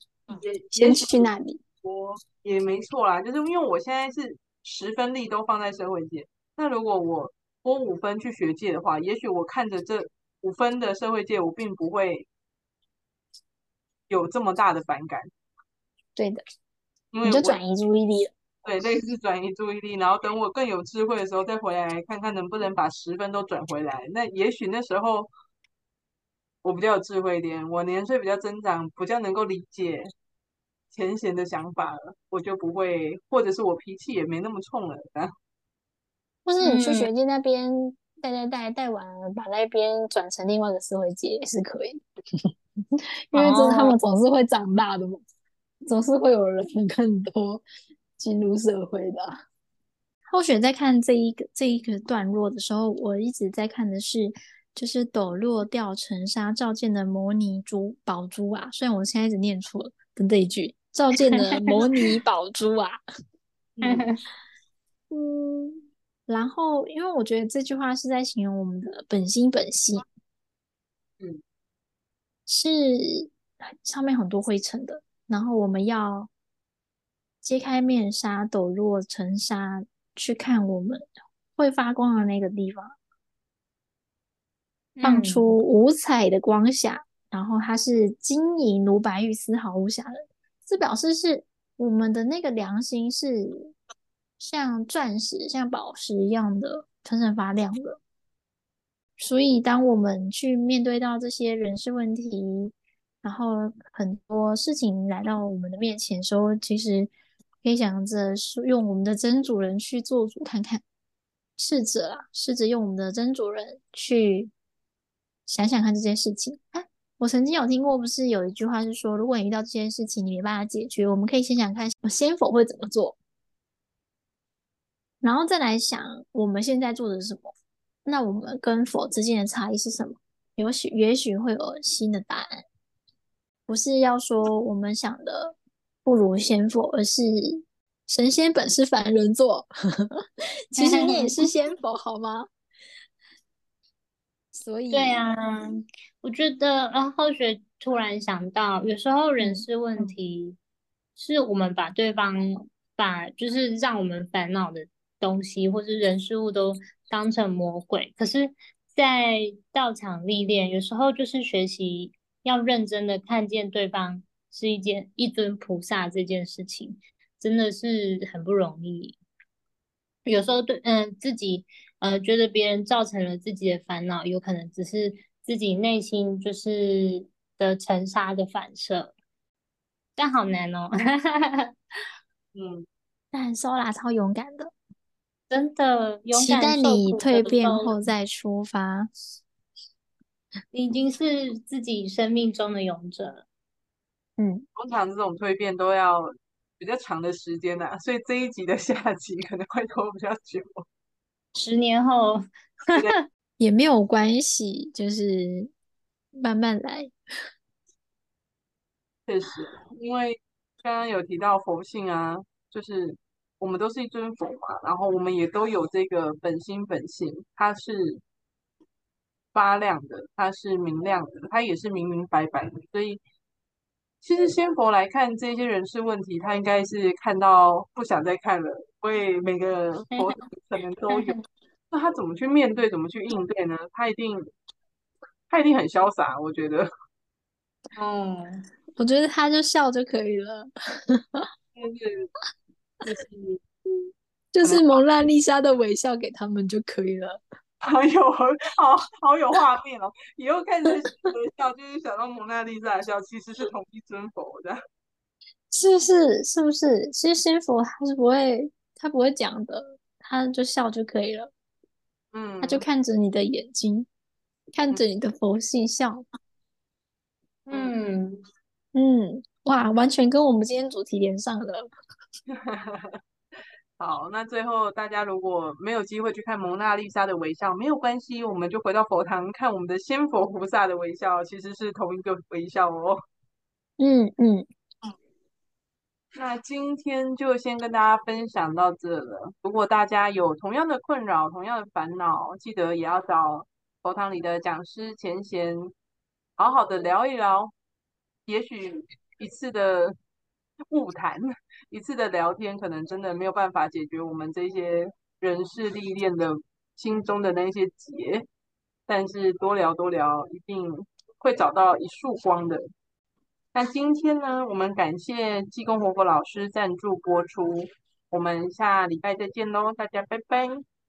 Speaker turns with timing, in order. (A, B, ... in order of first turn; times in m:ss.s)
0:00.3-0:01.3 A
0:00.7-0:01.6 B
0:01.8-0:12.3 A
0:14.1-0:15.3 A
0:16.2-0:16.4 B
0:17.1-0:17.6 A
0:17.2-0:18.3 B
0:18.6-0:25.3 A
0:26.6-0:30.1 A
0:30.9-0:35.3 A
0:36.5-0:42.0 B
0:36.6-0:37.1 C
0:43.3-0:45.2 B
0:43.3-0:44.0 C
0:45.9-0:47.6 B
0:48.2-0:49.3 B
0:50.3-1:03.0 B
1:03.8-1:04.1 A
1:03.8-1:04.2 C
1:05.1-1:10.0 B
1:12.5-1:16.3 B
1:17.4-1:21.0 B
1:21.6-1:23.0 B
1:25.0-1:25.5 C
1:25.0-1:33.8 B
1:34.4-1:38.0 B
1:39.2-1:47.1 B
1:47.6-1:50.8 B
1:51.6-1:54.5 B
1:55.5-2:03.2 B
2:05.2-2:07.5 B
2:08.1-2:12.6 B
2:13.7-2:19.7 B
2:20.8-2:22.5 B
2:20.8-2:21.5 C
2:24.5-2:25.2 B
2:24.9-2:30.6 C
2:29.4-2:30.0 B
2:31.2-2:49.2 C
2:50.3-2:59.1 C
3:00.2-3:01.7 C
3:02.6-3:02.9 A
3:03.3-3:04.7 B
3:05.5-3:07.9 C
3:06.3-3:09.1 B
3:10.7-3:13.4 C
3:14.4-3:14.6 B
3:14.8-3:20.8 A
3:21.6-3:23.2 C
3:23.6-3:25.7 B
3:26.3-3:27.1 B
3:29.3-3:38.2 A
3:39.5-3:43.2 A
3:44.2-3:51.4 A
3:51.1-3:51.4 C
3:51.9-3:54.5 A
3:55.5-3:56.9 A
3:58.0-3:58.6 C
3:59.0-4:01.5 B
4:01.8-4:02.3 A
4:03.0-4:03.6 A
4:04.5-4:07.4 B
4:04.6-4:04.9 A
4:07.8-4:14.8 A
4:15.7-4:21.5 B
4:22.3-4:22.8 A
4:22.6-4:24.1 B
4:24.7-4:26.2 B
4:27.7-4:28.4 C
4:28.9-4:31.9 B
4:32.5-4:33.2 A
4:34.0-4:43.2 A
4:44.0-4:44.7 B
4:46.4-4:55.9 A
4:56.6-4:57.7 A
4:58.5-5:00.1 A
5:00.9-5:08.4 A
5:09.1-5:12.8 A
5:13.8-5:20.8 A